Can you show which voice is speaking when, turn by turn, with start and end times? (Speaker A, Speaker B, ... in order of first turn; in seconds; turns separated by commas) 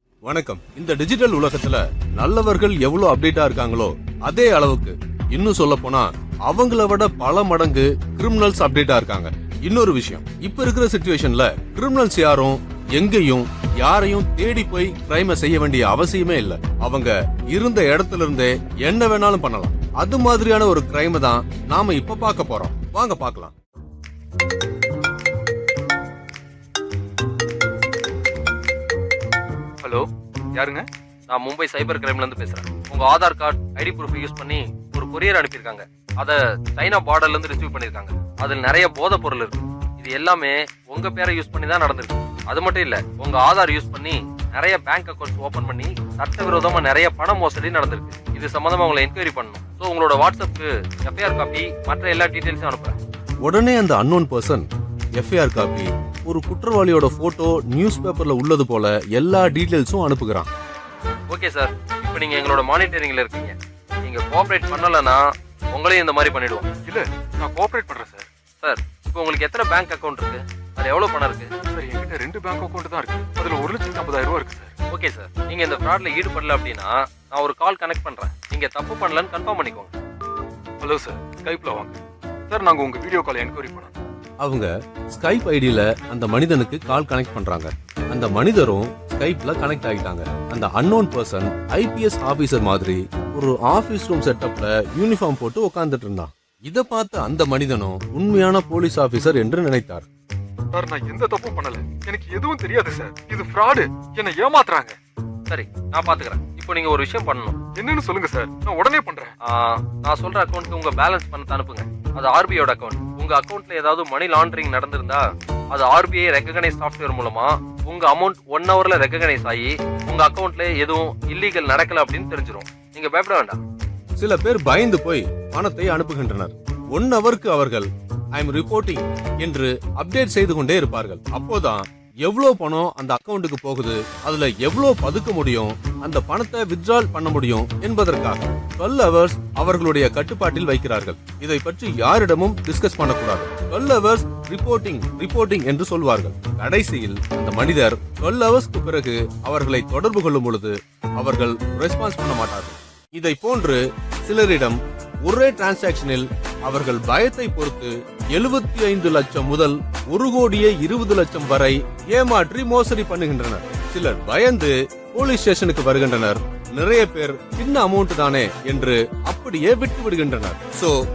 Speaker A: 0.3-23.5, Speaker B: 29.8-30.9, Speaker C: 31.3-53.0, Speaker A: 53.4-60.5, Speaker C: 61.3-66.7, Speaker B: 66.9-68.3, Speaker C: 68.6-71.5, Speaker B: 71.7-74.7, Speaker C: 74.9-79.9, Speaker B: 80.8-82.0, Speaker B: 82.5-84.0, Speaker A: 84.4-100.1, Speaker B: 100.7-105.0, Speaker C: 105.5-107.6, Speaker B: 107.7-109.3, Speaker C: 109.4-123.6, Speaker A: 124.2-171.0